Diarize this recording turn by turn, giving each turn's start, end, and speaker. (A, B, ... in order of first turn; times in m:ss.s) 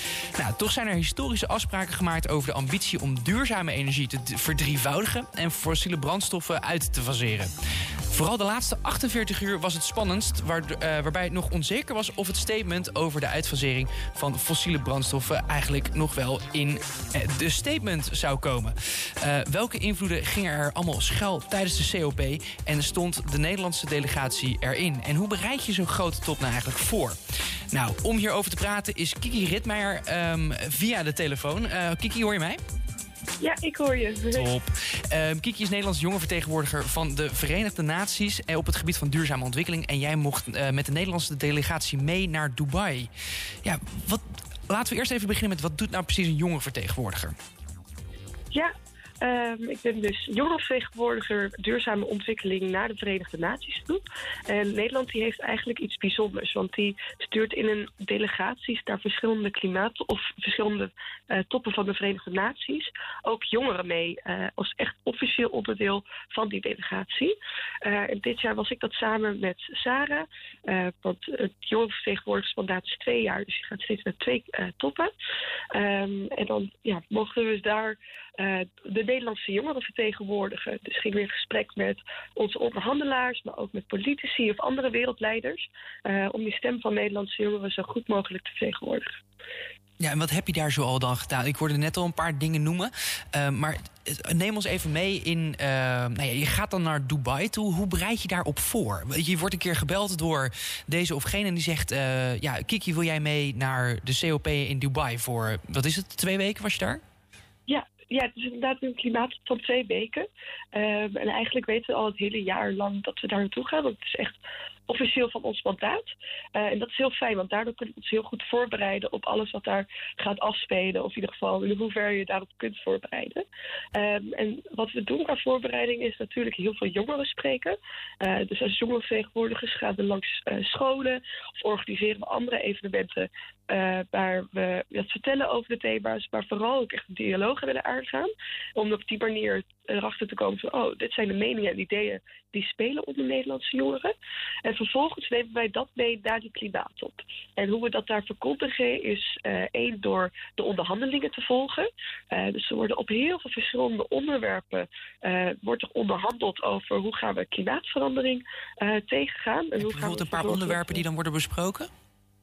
0:00.4-0:07.5 A
0:08.1-0:27.2 A
0:27.7-0:32.6 A
0:33.4-0:34.5 B
0:34.3-0:43.1 A
0:43.6-0:47.4 A
0:48.5-1:15.1 B
1:15.7-1:29.2 B
1:30.0-1:47.0 A
1:47.7-1:54.4 B
1:54.9-2:03.4 B
2:03.9-2:24.1 B
2:24.6-2:41.0 B
2:39.8-2:41.9 A